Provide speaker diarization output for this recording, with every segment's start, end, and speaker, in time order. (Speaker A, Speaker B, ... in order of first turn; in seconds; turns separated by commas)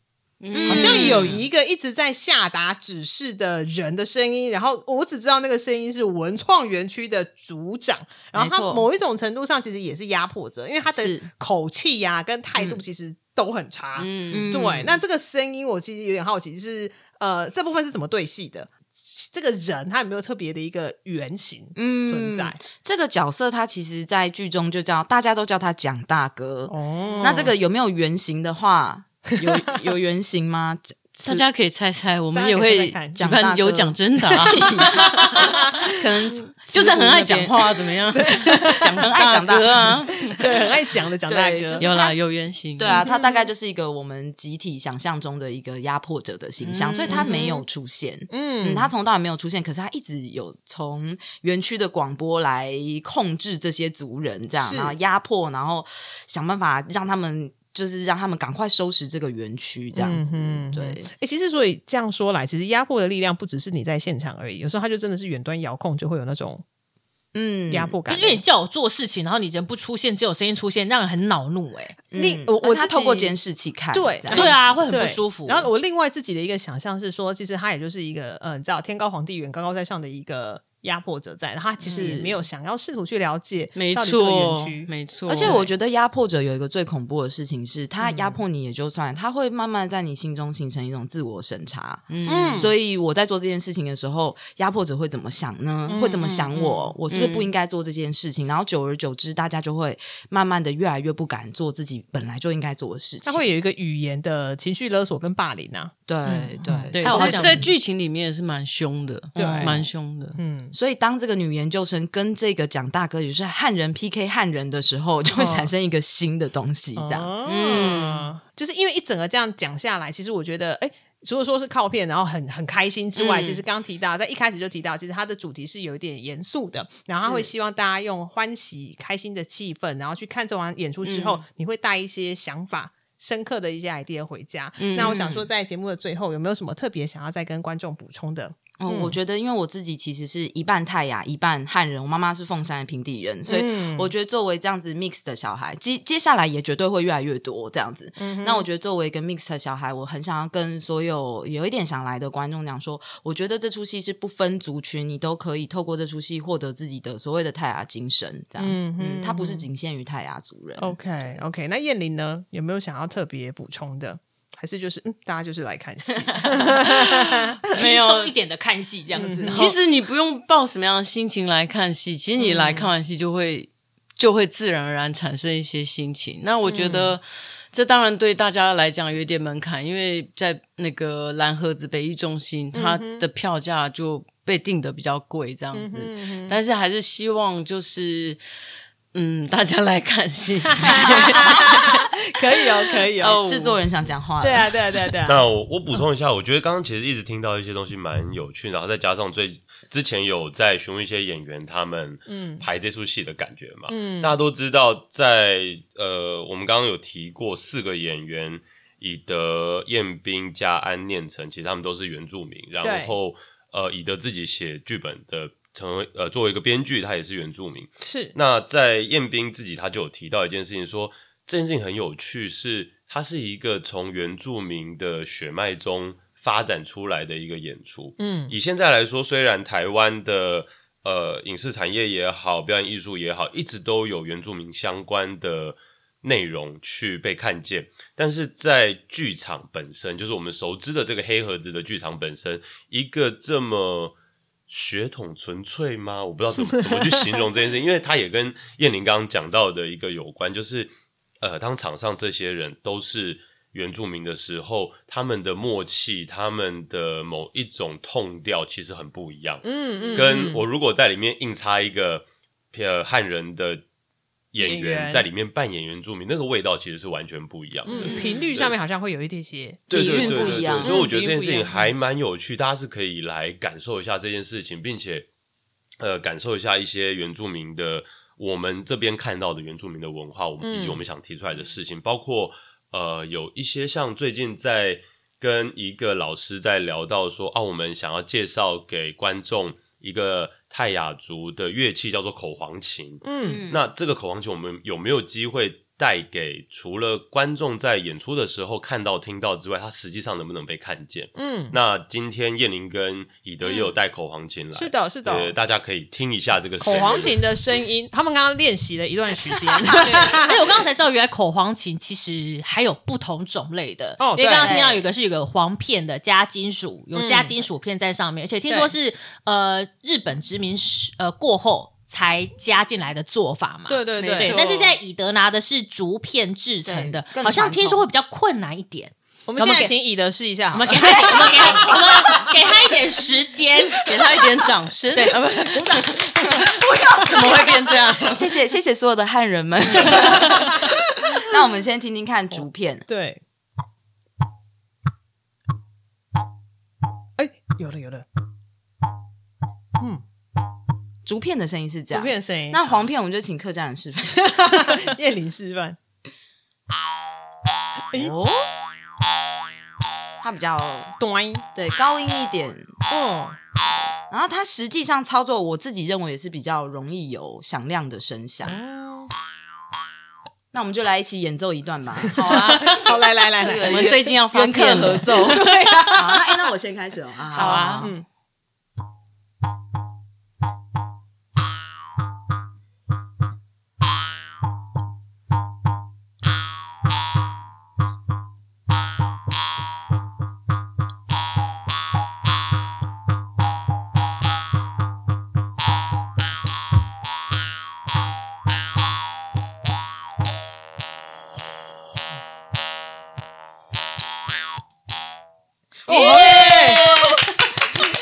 Speaker A: 0.4-1.3, Speaker B: 0.5-1.4, Speaker C: 0.6-22.6, Speaker B: 8.3-8.9, Speaker B: 10.9-11.3, Speaker A: 14.0-14.7, Speaker B: 14.3-15.0, Speaker B: 21.8-31.4, Speaker C: 26.7-27.5, Speaker A: 31.2-35.5, Speaker C: 32.3-33.2, Speaker B: 33.1-37.6, Speaker C: 35.2-35.6, Speaker A: 36.6-40.4, Speaker C: 38.1-38.9, Speaker B: 38.6-39.9, Speaker C: 39.9-41.9, Speaker B: 41.3-42.2, Speaker A: 41.8-43.0, Speaker B: 42.8-61.1, Speaker C: 43.0-43.5, Speaker A: 46.6-47.4, Speaker C: 47.1-47.6, Speaker C: 48.3-48.9, Speaker C: 54.5-55.0, Speaker C: 59.9-66.6, Speaker B: 67.3-68.0, Speaker C: 67.7-68.4, Speaker D: 68.1-72.0, Speaker B: 72.1-74.9, Speaker C: 72.1-73.4, Speaker C: 73.9-84.9, Speaker D: 74.3-75.7, Speaker B: 81.8-82.4, Speaker A: 83.8-85.7, Speaker B: 85.3-103.5, Speaker C: 88.0-88.4, Speaker A: 92.1-92.7, Speaker C: 92.2-92.7, Speaker C: 95.9-97.0, Speaker A: 97.1-97.5, Speaker C: 103.2-105.9, Speaker B: 106.1-107.6, Speaker A: 106.3-110.4, Speaker C: 106.7-107.6, Speaker D: 107.0-107.7, Speaker C: 109.4-110.7, Speaker B: 109.4-109.7, Speaker B: 110.7-117.3, Speaker C: 115.3-115.7, Speaker C: 117.0-139.2, Speaker A: 117.5-118.3, Speaker A: 123.2-123.6, Speaker A: 131.0-131.4, Speaker A: 134.8-135.4, Speaker B: 138.8-161.0, Speaker C: 143.5-144.1, Speaker C: 148.2-148.7, Speaker C: 158.6-159.7, Speaker C: 160.8-167.6, Speaker A: 166.8-168.3, Speaker D: 167.7-169.8, Speaker C: 169.1-169.7, Speaker A: 169.5-188.4, Speaker C: 172.4-172.9, Speaker C: 176.7-177.1, Speaker C: 182.7-183.3, Speaker C: 185.7-186.6, Speaker A: 189.1-192.0, Speaker C: 190.9-193.4, Speaker A: 193.2-193.8, Speaker B: 193.2-194.7, Speaker C: 194.4-195.4, Speaker E: 195.3-244.1, Speaker C: 202.3-202.6, Speaker C: 203.9-204.4, Speaker C: 212.8-213.2, Speaker C: 218.0-218.3, Speaker C: 228.2-228.6, Speaker E: 244.7-263.8, Speaker C: 259.6-260.6, Speaker E: 264.5-268.8, Speaker C: 264.6-265.3, Speaker C: 267.9-271.9, Speaker B: 268.0-268.4, Speaker E: 269.9-275.3, Speaker B: 269.9-271.0, Speaker E: 276.0-307.4, Speaker C: 280.6-281.0, Speaker C: 293.2-293.6, Speaker B: 293.4-293.8, Speaker C: 301.4-301.8, Speaker C: 304.7-305.5, Speaker C: 306.8-310.6, Speaker B: 310.0-310.4, Speaker D: 310.3-329.8, Speaker C: 314.2-314.8, Speaker B: 314.6-315.0, Speaker C: 317.1-317.6, Speaker C: 318.7-318.9, Speaker C: 323.9-324.6, Speaker A: 324.3-325.0, Speaker B: 326.9-328.1, Speaker C: 329.5-332.0, Speaker D: 330.7-334.0, Speaker A: 334.0-338.4, Speaker C: 335.7-336.8, Speaker B: 338.3-340.8, Speaker C: 340.0-341.4, Speaker B: 341.4-343.1, Speaker C: 343.1-343.4, Speaker C: 347.4-348.3, Speaker B: 351.3-354.5, Speaker C: 352.1-352.8, Speaker C: 354.4-356.0, Speaker B: 358.1-358.6, Speaker B: 360.4-361.1, Speaker C: 361.2-361.6, Speaker B: 361.7-362.9, Speaker C: 363.1-363.6, Speaker B: 364.3-368.8, Speaker C: 368.6-369.3, Speaker B: 370.7-378.1, Speaker C: 372.4-374.2, Speaker D: 372.4-373.0, Speaker A: 373.8-375.6, Speaker C: 375.2-376.5, Speaker A: 377.5-378.1, Speaker C: 377.5-378.3, Speaker C: 406.1-407.3, Speaker B: 406.1-407.0, Speaker A: 406.5-407.0